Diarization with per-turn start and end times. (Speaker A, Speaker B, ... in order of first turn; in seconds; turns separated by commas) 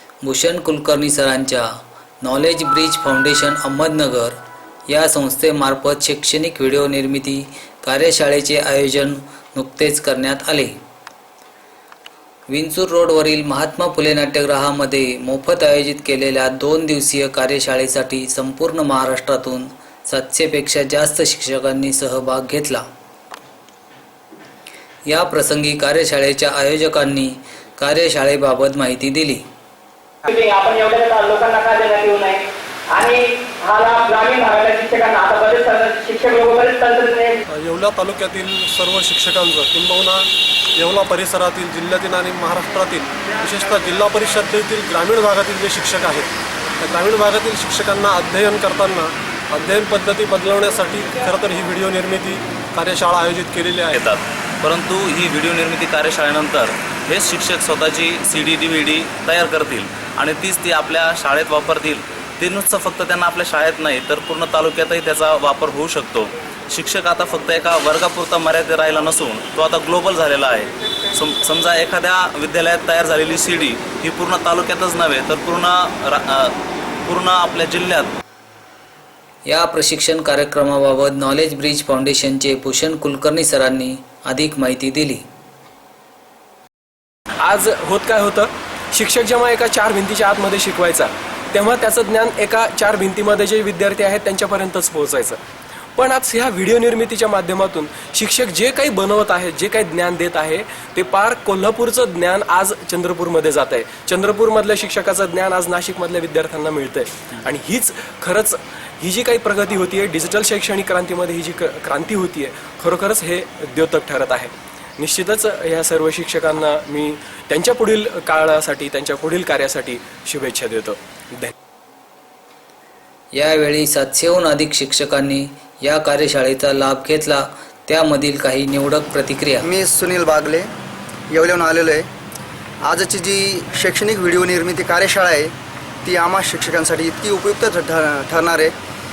Speaker A: 0.2-1.7, Speaker A: 2.2-4.4, Speaker A: 4.9-10.7, Speaker A: 12.5-22.9, Speaker A: 25.1-29.4, Speaker B: 30.3-37.4, Speaker C: 37.5-54.1, Speaker D: 53.9-76.5, Speaker D: 77.1-78.1, Speaker A: 79.5-85.2, Speaker E: 87.4-95.4, Speaker E: 96.0-121.5, Speaker A: 123.3-129.7, Speaker F: 129.6-130.7, Speaker F: 131.3-132.1, Speaker F: 132.8-135.5, Speaker F: 136.0-138.7